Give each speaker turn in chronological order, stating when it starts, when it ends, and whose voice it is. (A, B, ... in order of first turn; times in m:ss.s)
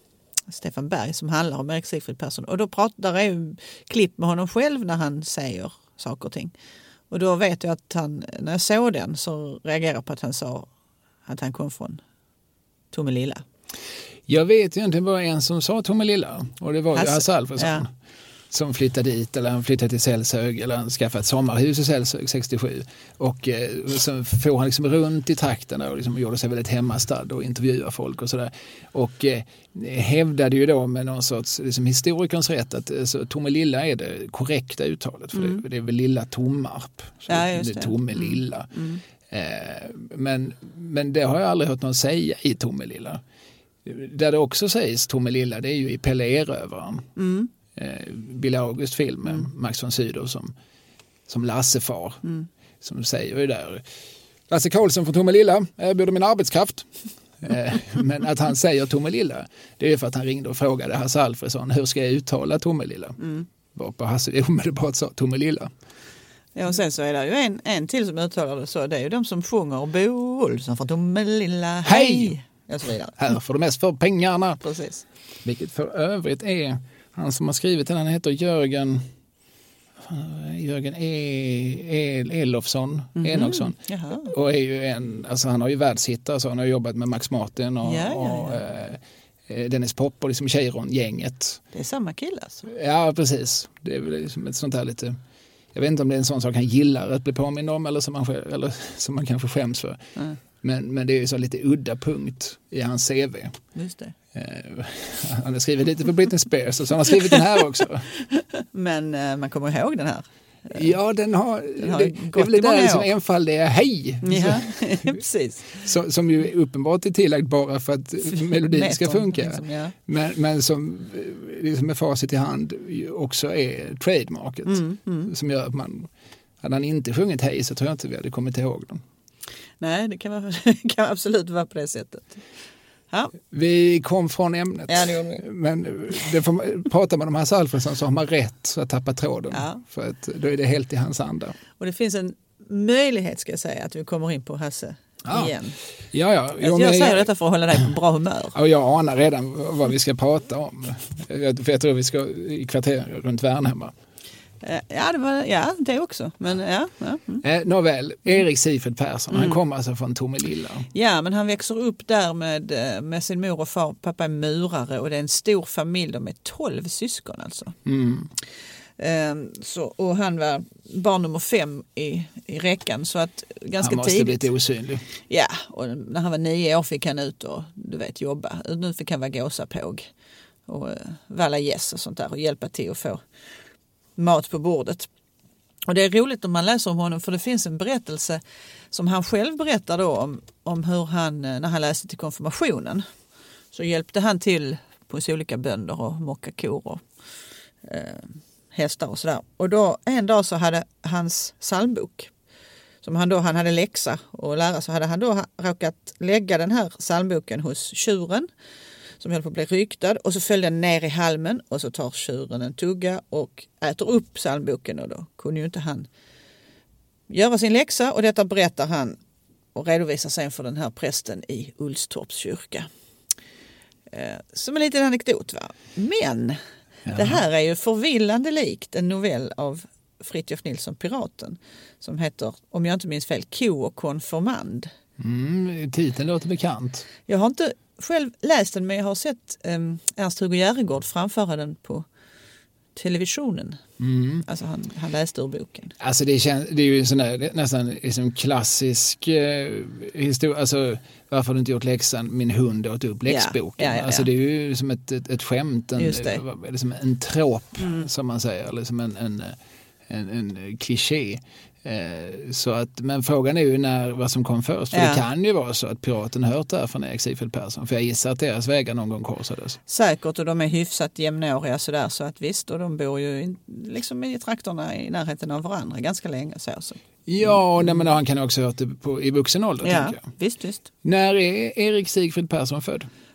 0:00.5-0:06.5 A
0:07.1-0:10.7 A
0:11.2-0:12.0 A
0:12.9-0:13.4 A
0:14.3-0:17.9 B
0:16.9-0:17.8 A
0:18.5-0:38.7 B
0:35.3-0:35.6 A
0:37.3-0:39.0 A
0:39.3-0:43.2 B
0:43.8-0:47.1 B
0:47.2-0:47.5 A
0:47.7-0:50.5 B
0:51.3-0:52.2 B
0:52.8-0:53.8 B
0:54.5-1:03.2 B
1:03.2-1:03.5 A
1:03.7-1:05.7 B
1:06.6-1:13.2 A
1:11.8-1:12.3 B
1:13.2-1:14.6 B
1:14.6-1:15.0 A
1:15.4-1:19.1 B
1:20.0-1:31.6 B
1:23.2-1:24.3 A
1:27.8-1:28.6 A
1:31.7-1:32.6 A
1:32.6-1:35.2 B
1:35.7-1:40.0 B
1:40.6-1:43.5 B
1:43.7-1:44.1 A
1:44.3-1:48.1 B
1:48.3-1:50.9 A
1:50.7-1:55.2 B
1:51.8-1:53.1 A
1:54.2-1:55.8 A
1:55.8-2:06.1 B
1:58.2-1:59.9 A
2:04.6-2:05.3 A
2:06.6-2:09.0 B
2:09.8-2:12.4 A
2:13.5-2:21.5 B
2:14.9-2:15.4 A
2:19.5-2:19.8 A
2:21.8-2:25.8 A
2:25.2-2:25.5 B
2:26.1-2:27.3 B
2:26.6-2:28.6 A
2:28.5-2:33.9 B
2:34.6-2:37.4 A
2:37.4-2:40.9 B
2:39.3-2:39.6 A
2:40.9-2:47.8 A
2:47.8-2:48.3 B
2:49.0-2:54.4 A
2:53.8-2:55.0 B
2:55.3-3:00.0 A
3:00.7-3:03.2 A
3:04.2-3:05.1 A
3:05.9-3:08.4 A
3:08.9-3:13.0 A
3:13.7-3:17.0 A
3:17.8-3:22.3 A
3:23.0-3:28.5 A
3:29.2-3:36.1 A
3:37.3-3:39.2 A
3:39.7-3:42.9 A
3:44.1-3:54.9 A
3:47.0-3:47.4 B
3:55.2-3:57.1 B
3:57.3-4:02.0 A
4:02.9-4:03.8 A
4:04.0-4:04.4 B
4:04.4-4:05.9 A
4:06.0-4:29.8 B
4:13.2-4:14.3 A
4:16.0-4:16.4 A
4:17.8-4:18.1 A
4:24.9-4:25.2 A
4:29.9-4:37.6 A
4:37.2-4:40.2 B
4:39.8-4:40.9 A
4:41.0-4:43.1 B